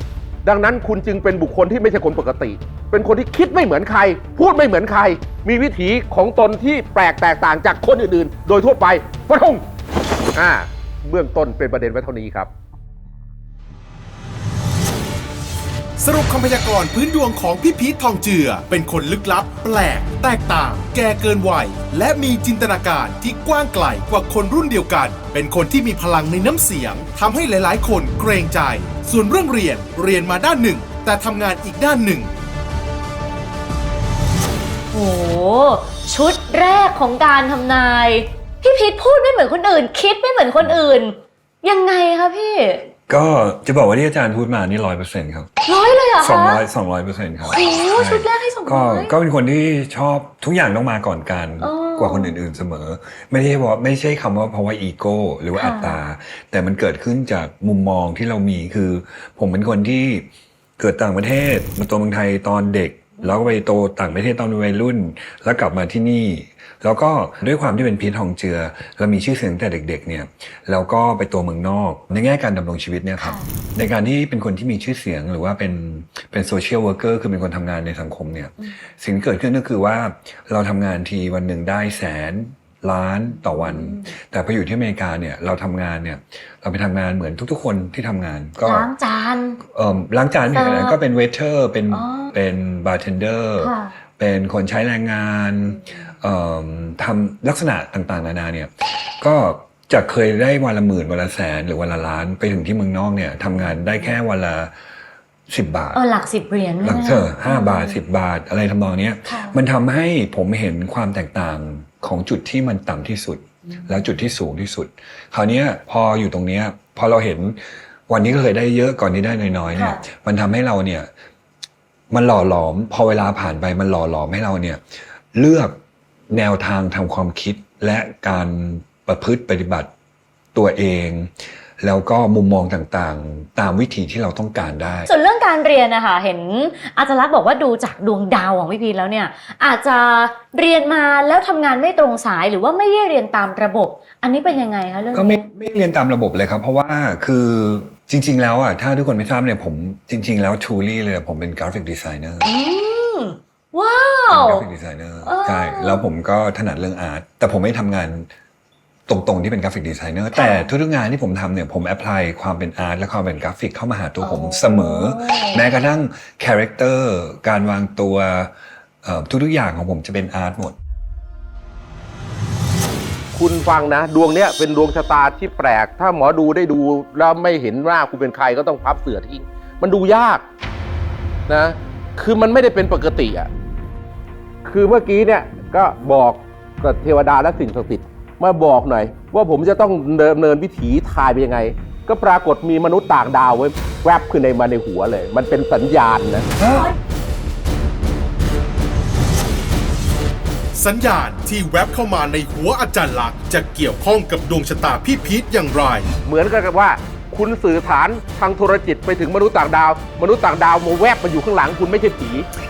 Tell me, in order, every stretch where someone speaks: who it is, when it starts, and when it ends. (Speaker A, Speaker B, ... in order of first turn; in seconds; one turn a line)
Speaker A: 0.4-9.6
Speaker A: 10.3-12.5
Speaker B: 16.0-32.3
Speaker C: 34.9-42.9
Speaker D: 43.1-45.5
Speaker C: 45.6-46.6
Speaker D: 46.1-88.9
Speaker C: 47.4-49.1
Speaker C: 51.6-52.3
Speaker C: 55.5-56.0
Speaker C: 73.2-73.5
Speaker C: 88.6-89.6
Speaker D: 89.6-104.7
Speaker C: 90.5-91.0
Speaker C: 91.9-92.3
Speaker C: 93.6-93.9
Speaker D: 105.5-106.0
Speaker C: 105.9-108.0
Speaker D: 106.8-121.1
Speaker C: 109.3-109.6
Speaker C: 119.7-120.0
Speaker D: 122.1-124.8
Speaker D: 125.3-129.9
Speaker D: 130.5-135.1
Speaker C: 135.1-145.4
Speaker D: 145.1-152.5
Speaker C: 152.4-154.6
Speaker D: 154.3-158.3
Speaker C: 155.2-156.1
Speaker D: 159.1-170.8
Speaker C: 160.3-160.7
Speaker C: 164.2-165.6
Speaker A: 173.3-180.4
Speaker A: 181.5-183.5
Speaker A: 184.6-196.5
Speaker D: 196.6-196.9
Speaker B: 200.7-206.1
Speaker A: 206.2-212.5